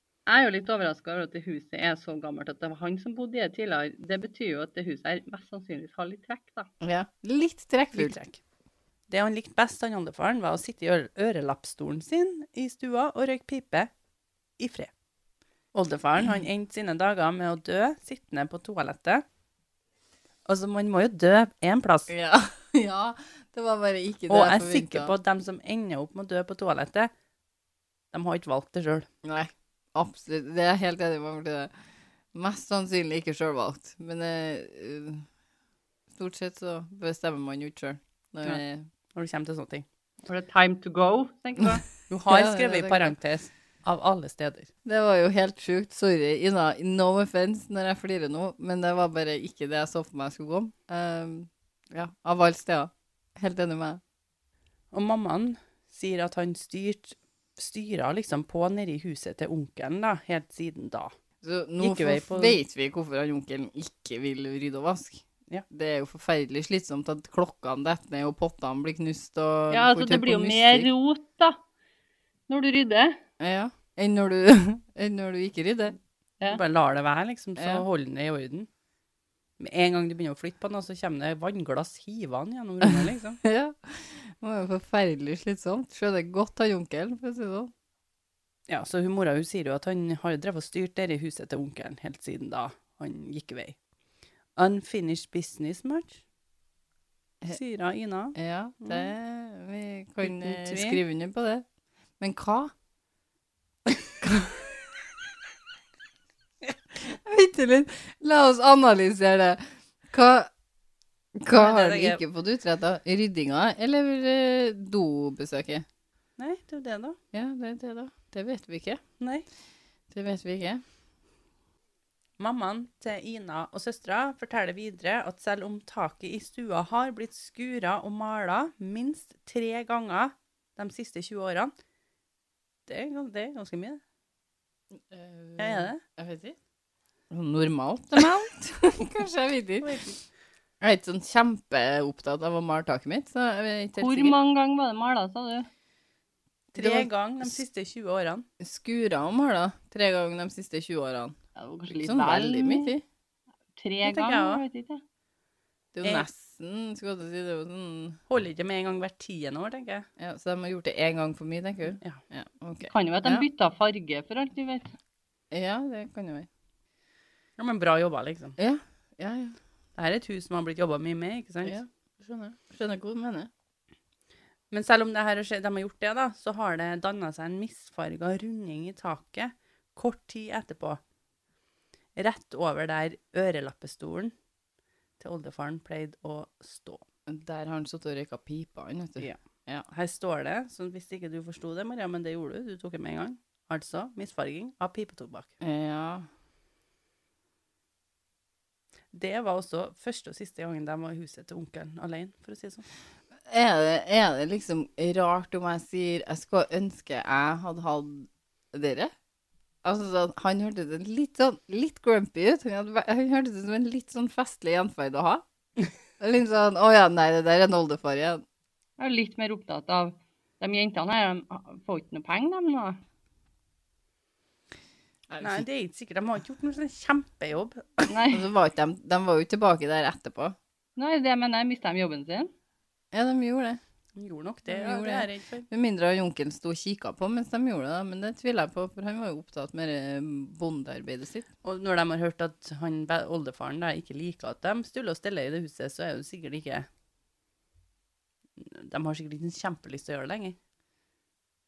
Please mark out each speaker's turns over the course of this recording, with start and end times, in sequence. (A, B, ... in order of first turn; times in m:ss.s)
0:00.3-0:06.7 A
0:06.8-0:08.2 B
0:07.9-0:08.4 C
0:09.1-0:13.9 C
0:14.6-0:14.9 C
0:15.7-0:19.2 C
0:20.5-0:22.1 C
0:22.1-0:25.1 B
0:24.3-0:27.1 C
0:28.1-0:29.1 C
0:29.2-0:31.7 B
0:32.3-0:35.2 B
0:36.1-0:38.8 B
0:39.1-0:39.8 C
0:40.2-0:41.8 A
0:42.1-0:44.7 C
0:42.3-0:43.1 B
0:44.8-0:54.0 B
0:54.9-1:01.1 C
1:01.4-1:10.9 B
1:01.8-1:02.6 C
1:09.7-1:11.6 A
1:12.5-1:13.2 A
1:13.4-1:16.0 B
1:16.5-1:18.7 C
1:17.6-1:17.8 B
1:19.6-1:23.4 C
1:22.8-1:27.7 B
1:28.7-1:33.8 C
1:34.6-1:36.2 C
1:37.5-1:39.1 C
1:38.4-1:41.6 B
1:40.2-1:41.0 C
1:42.2-1:42.7 B
1:44.2-1:44.7 B
1:46.9-1:49.6 B
1:50.1-1:50.5 B
1:51.4-1:55.8 B
1:51.5-1:52.2 C
1:56.4-1:57.2 C
1:57.3-1:59.0 B
1:59.2-1:59.4 C
2:00.1-2:00.8 B
2:02.4-2:11.7 C
2:12.9-2:14.0 C
2:14.9-2:16.6 B
2:15.6-2:16.0 C
2:17.3-2:19.9 B
2:19.8-2:20.2 C
2:20.8-2:24.4 B
2:24.0-2:25.7 A
2:26.7-2:28.4 C
2:26.8-2:27.6 B
2:28.6-2:31.4 B
2:31.6-2:32.9 A
2:31.9-2:33.0 B
2:33.8-2:35.0 A
2:34.0-2:34.6 C
2:35.9-2:38.2 B
2:38.3-2:40.1 C
2:40.2-2:43.4 B
2:42.9-2:44.9 A
2:45.5-2:46.5 B
2:47.6-2:48.6 C
2:48.6-2:49.6 B
2:50.0-2:51.8 C
2:51.6-2:53.5 B
2:54.7-3:01.0 C
3:02.2-3:04.3 C
3:05.2-3:07.0 C
3:07.3-3:09.8 B
3:09.9-3:15.5 C
3:15.6-3:16.3 B
3:19.1-3:22.8 C
3:23.5-3:29.1 B
3:29.8-3:35.4 B
3:36.2-3:38.4 B
3:39.0-3:43.0 A
3:45.3-3:45.6 B
3:45.4-3:48.1 C
3:48.1-3:48.5 A
3:48.3-3:50.5 B
3:51.0-3:52.5 A
3:53.1-3:53.8 B
3:54.2-3:55.7 C
3:54.7-4:01.5 B
4:01.6-4:06.9 C
4:08.6-4:10.6 C